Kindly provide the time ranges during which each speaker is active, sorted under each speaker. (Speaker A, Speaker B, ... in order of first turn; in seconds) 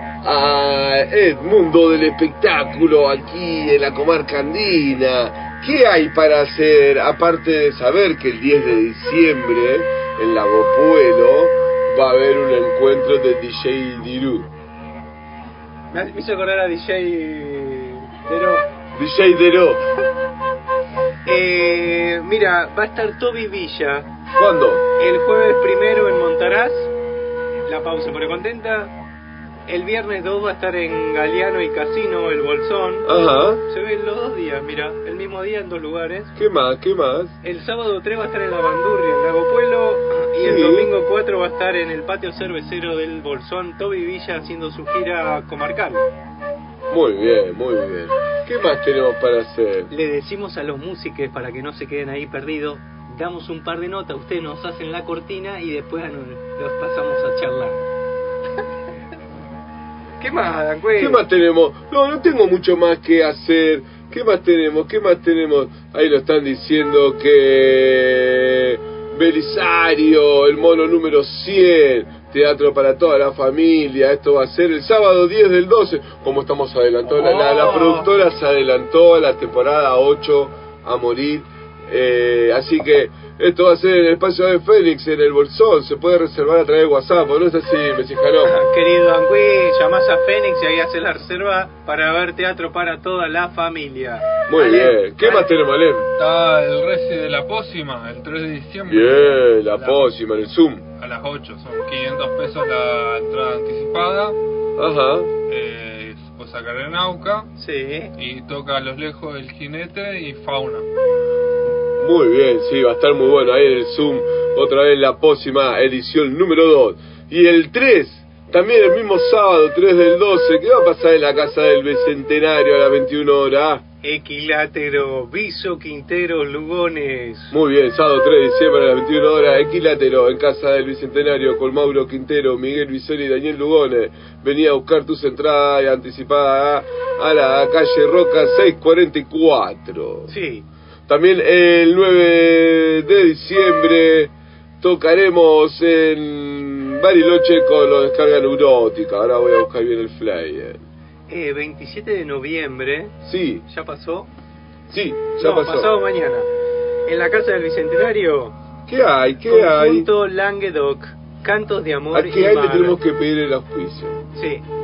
Speaker A: 0.2-14.5, 18.9-19.8, 24.3-24.8, 33.0-33.6, 36.4-37.4, 40.4-40.9, 46.9-49.9, 61.0-88.6, 94.5-96.1, 98.9-100.8, 104.8-105.3, 112.0-123.8, 127.5-140.3, 141.1-150.8, 153.2-153.6, 154.9-155.9, 158.9-160.1, 162.1-164.2
Speaker B: 15.9-18.7, 21.2-24.1, 25.0-26.9, 27.7-28.9, 29.7-36.3, 37.4-46.0, 49.9-57.8, 60.2-61.2, 77.1-78.1, 88.4-95.5, 107.6-108.1, 124.0-127.5, 140.3-140.7, 151.3-153.1, 153.7-154.3, 155.4-156.5, 157.1-158.6, 159.4-163.0, 164.3-164.6
Speaker C: 96.2-100.1, 101.0-104.4, 105.5-107.5, 108.2-110.8